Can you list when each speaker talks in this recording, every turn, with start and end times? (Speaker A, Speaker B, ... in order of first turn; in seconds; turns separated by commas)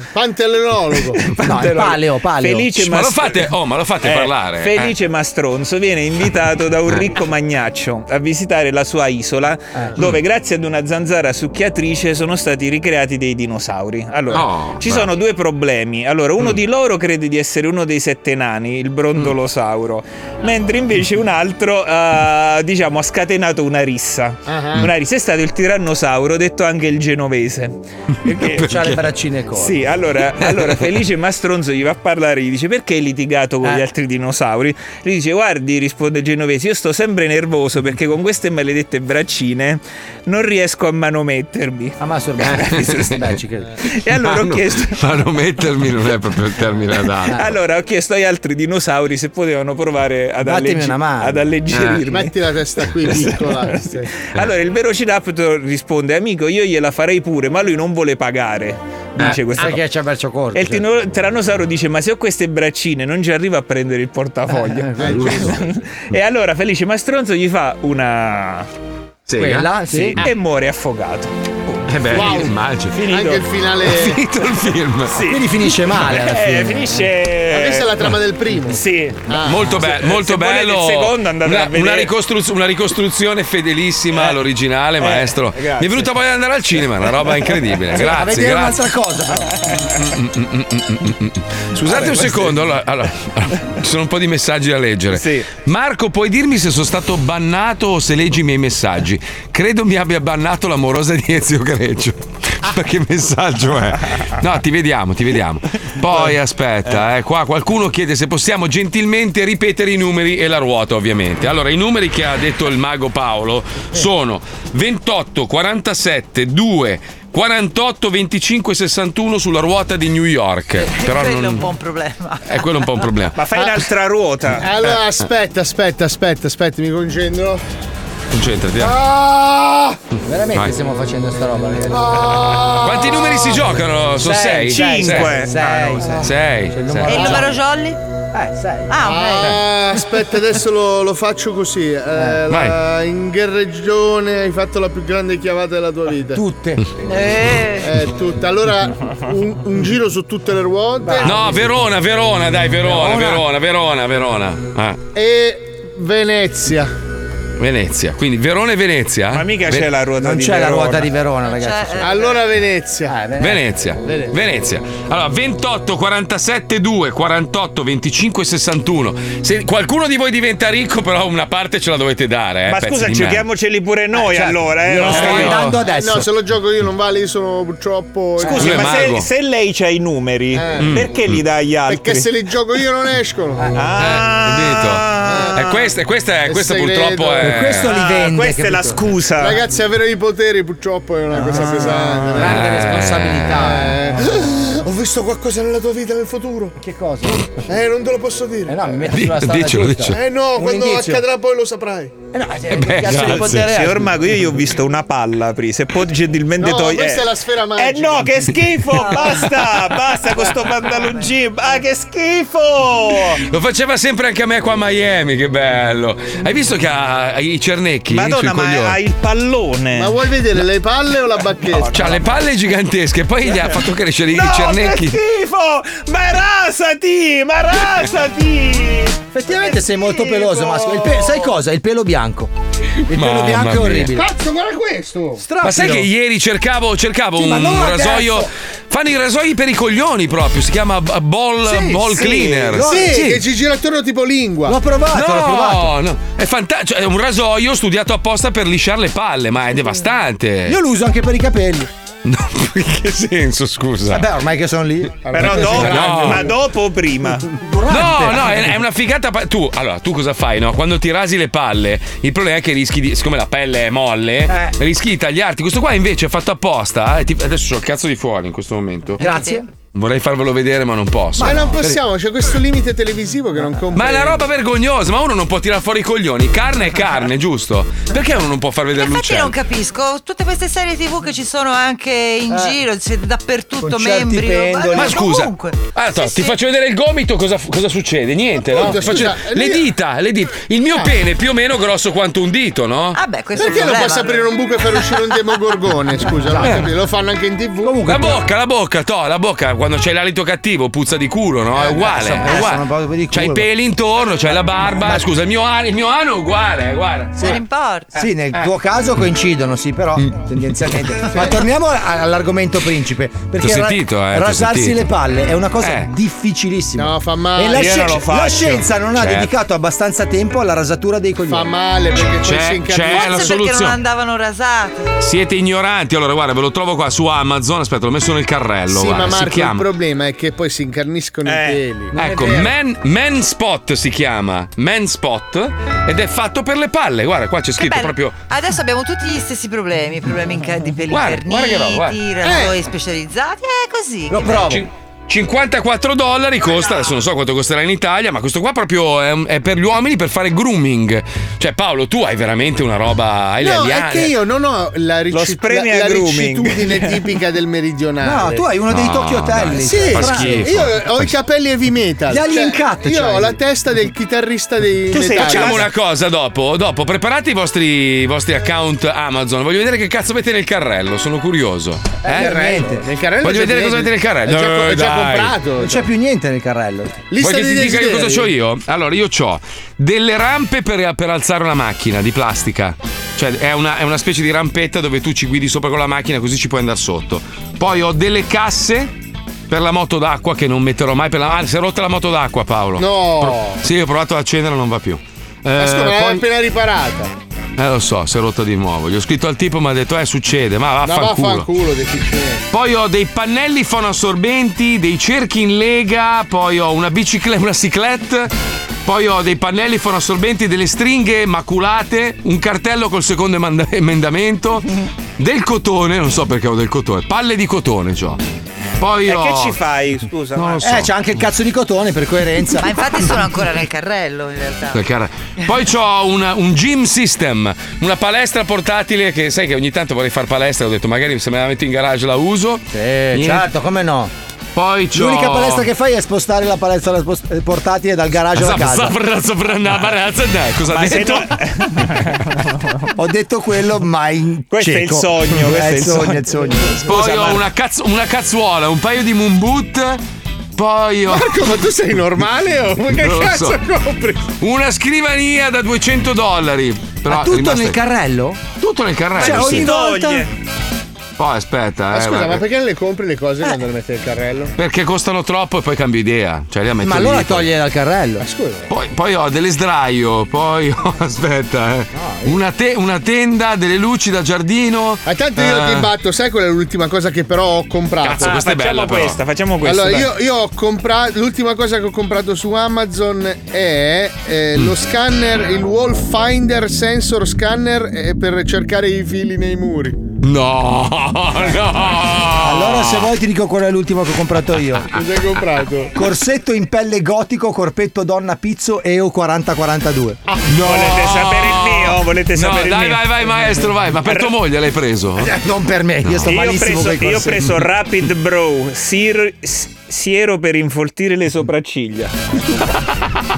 Speaker A: 0.1-1.3, Speaker B: 1.2-29.0, Speaker C: 1.4-2.7, Speaker D: 2.8-4.9, Speaker D: 14.3-15.1, Speaker A: 24.5-24.9, Speaker C: 28.6-29.8, Speaker D: 28.6-29.0, Speaker B: 29.5-45.0, Speaker C: 42.0-43.7, Speaker D: 44.2-47.4, Speaker B: 47.3-52.3, Speaker C: 50.4-51.4, Speaker D: 51.7-52.0, Speaker A: 52.1-54.1, Speaker B: 53.0-59.8, Speaker C: 59.2-60.8, Speaker B: 60.5-68.7, Speaker C: 64.5-65.4, Speaker A: 65.0-65.5, Speaker D: 69.3-70.3, Speaker C: 69.4-70.2, Speaker B: 70.2-73.5, Speaker D: 71.9-73.0, Speaker A: 72.1-72.5, Speaker A: 73.0-74.2, Speaker D: 73.8-75.2, Speaker B: 75.1-78.0, Speaker C: 75.2-76.9, Speaker A: 77.5-79.8, Speaker B: 78.7-82.1, Speaker D: 79.5-88.8, Speaker B: 85.0-86.1, Speaker C: 87.9-89.7, Speaker D: 90.0-121.7, Speaker B: 91.9-92.6, Speaker B: 95.1-95.5, Speaker E: 120.8-122.6, Speaker D: 122.5-123.4, Speaker B: 123.3-124.7, Speaker A: 124.6-127.6, Speaker D: 128.3-129.0, Speaker A: 128.8-130.0, Speaker C: 130.2-132.2, Speaker A: 131.9-133.6, Speaker D: 132.8-135.4, Speaker C: 134.2-137.5, Speaker B: 134.7-136.3, Speaker D: 136.2-137.4, Speaker E: 137.1-138.0, Speaker C: 138.3-139.0, Speaker E: 138.9-139.6, Speaker A: 139.0-146.4, Speaker C: 142.1-142.4, Speaker D: 142.5-142.8, Speaker C: 146.3-146.8, Speaker E: 147.5-147.7, Speaker A: 147.8-151.3, Speaker C: 151.0-151.7, Speaker D: 151.2-155.0, Speaker C: 152.8-153.4, Speaker A: 155.1-156.9, Speaker D: 157.6-159.9, Speaker B: 159.3-161.1, Speaker C: 160.2-162.1, Speaker E: 161.4-162.4, Speaker A: 162.0-163.2, Speaker C: 163.1-164.3, Speaker D: 163.4-173.4, Speaker B: 172.7-175.6, Speaker C: 174.1-176.3, Speaker D: 175.0-175.8, Speaker A: 175.9-178.9, Speaker C: 178.4-178.9, Speaker B: 178.5-182.3, Speaker D: 178.6-179.3, Speaker A: 180.5-180.9, Speaker D: 180.8-181.4, Speaker A: 181.9-183.7, Speaker B: 183.7-185.9, Speaker D: 184.0-187.9, Speaker A: 185.2-185.6, Speaker A: 186.4-187.6, Speaker C: 187.4-189.0, Speaker B: 187.8-189.6, Speaker A: 189.4-192.7, Speaker C: 191.3-194.3, Speaker B: 191.5-191.9, Speaker D: 192.4-193.6, Speaker A: 193.6-196.8, Speaker C: 196.8-197.6, Speaker A: 197.7-198.8, Speaker C: 198.7-201.2, Speaker D: 199.1-200.2, Speaker A: 200.1-202.1, Speaker C: 202.3-204.1, Speaker D: 202.7-203.8, Speaker B: 203.1-213.4, Speaker A: 206.6-208.3, Speaker D: 213.3-219.0, Speaker B: 218.1-220.2, Speaker A: 219.9-222.1, Speaker B: 221.7-222.2, Speaker D: 221.9-225.2, Speaker B: 223.4-223.7, Speaker B: 224.3-231.2, Speaker C: 229.3-232.5, Speaker C: 233.1-234.2, Speaker D: 233.1-234.1, Speaker A: 234.1-235.4, Speaker C: 235.4-236.1, Speaker D: 235.6-243.0, Speaker C: 237.3-238.5, Speaker C: 241.6-243.4, Speaker A: 242.8-244.8, Speaker C: 244.7-245.9, Speaker D: 245.1-250.8, Speaker C: 250.7-251.9, Speaker D: 252.2-254.3, Speaker C: 254.1-256.2, Speaker A: 255.3-256.5, Speaker B: 255.3-257.5, Speaker D: 255.6-256.5, Speaker C: 257.6-258.7, Speaker D: 257.9-269.2, Speaker C: 264.5-264.7, Speaker C: 269.2-269.6, Speaker E: 269.2-269.6, Speaker D: 269.9-271.6, Speaker C: 271.4-272.0, Speaker A: 271.4-274.5, Speaker D: 273.9-279.5, Speaker E: 278.9-286.6, Speaker C: 282.5-282.8, Speaker C: 283.8-285.2, Speaker D: 284.9-293.2, Speaker A: 288.7-289.9, Speaker E: 293.1-294.4, Speaker A: 293.5-298.0, Speaker C: 296.5-296.8, Speaker C: 297.8-298.4, Speaker D: 298.0-307.5, Speaker C: 301.7-303.7, Speaker C: 304.8-305.3, Speaker E: 307.4-308.1, Speaker C: 308.1-321.7, Speaker D: 313.6-315.0, Speaker D: 315.8-316.1, Speaker A: 316.9-318.2, Speaker B: 317.7-318.9, Speaker D: 319.2-319.5, Speaker A: 321.5-323.6, Speaker D: 322.4-324.0, Speaker E: 323.1-325.1, Speaker D: 325.2-329.9, Speaker A: 328.9-332.7, Speaker B: 331.4-331.8, Speaker D: 332.1-338.4, Speaker E: 337.8-344.7, Speaker D: 341.1-342.2, Speaker A: 342.4-342.8, Speaker C: 344.3-344.9, Speaker D: 344.6-354.4, Speaker A: 353.6-358.6, Speaker B: 355.3-357.3, Speaker C: 358.2-360.8, Speaker D: 358.9-361.3, Speaker A: 359.8-365.9, Speaker C: 362.3-363.6, Speaker B: 365.1-365.9, Speaker D: 365.4-372.5, Speaker C: 372.2-373.0, Speaker A: 372.3-376.1, Speaker D: 373.4-375.6, Speaker C: 375.8-377.2, Speaker A: 377.3-378.5, Speaker D: 377.4-389.1, Speaker D: 389.7-396.4, Speaker A: 393.0-393.8, Speaker A: 395.8-397.3, Speaker D: 397.8-401.7, Speaker A: 401.0-402.6, Speaker D: 402.7-408.5, Speaker D: 409.0-414.9, Speaker D: 415.4-418.4, Speaker D: 419.0-419.8, Speaker B: 419.2-420.9, Speaker D: 420.5-421.1, Speaker C: 420.8-423.0, Speaker E: 422.8-425.0, Speaker D: 424.9-433.7, Speaker C: 432.9-434.3, Speaker D: 434.7-435.9, Speaker C: 435.1-439.1, Speaker D: 438.5-441.5, Speaker B: 440.9-442.6, Speaker C: 443.1-447.5, Speaker B: 444.7-446.4, Speaker D: 447.1-450.2, Speaker D: 450.8-451.6, Speaker A: 451.3-454.5, Speaker D: 453.1-453.8, Speaker D: 454.6-458.0, Speaker C: 457.3-458.6, Speaker D: 458.8-459.9, Speaker C: 459.4-460.5, Speaker B: 459.4-460.5, Speaker D: 461.4-462.6, Speaker A: 462.1-464.7, Speaker D: 464.8-467.7, Speaker C: 467.0-468.4, Speaker A: 468.4-468.9, Speaker D: 468.9-476.1, Speaker C: 472.1-472.6, Speaker A: 475.2-478.6, Speaker D: 478.2-479.4, Speaker B: 478.4-480.3, Speaker A: 479.8-490.2, Speaker D: 490.4-493.3, Speaker C: 492.6-495.1, Speaker A: 495.1-496.1, Speaker C: 496.1-500.4, Speaker D: 500.7-505.5, Speaker B: 500.8-503.5, Speaker B: 504.2-504.5, Speaker C: 505.4-507.6, Speaker D: 506.2-506.5, Speaker B: 506.4-512.3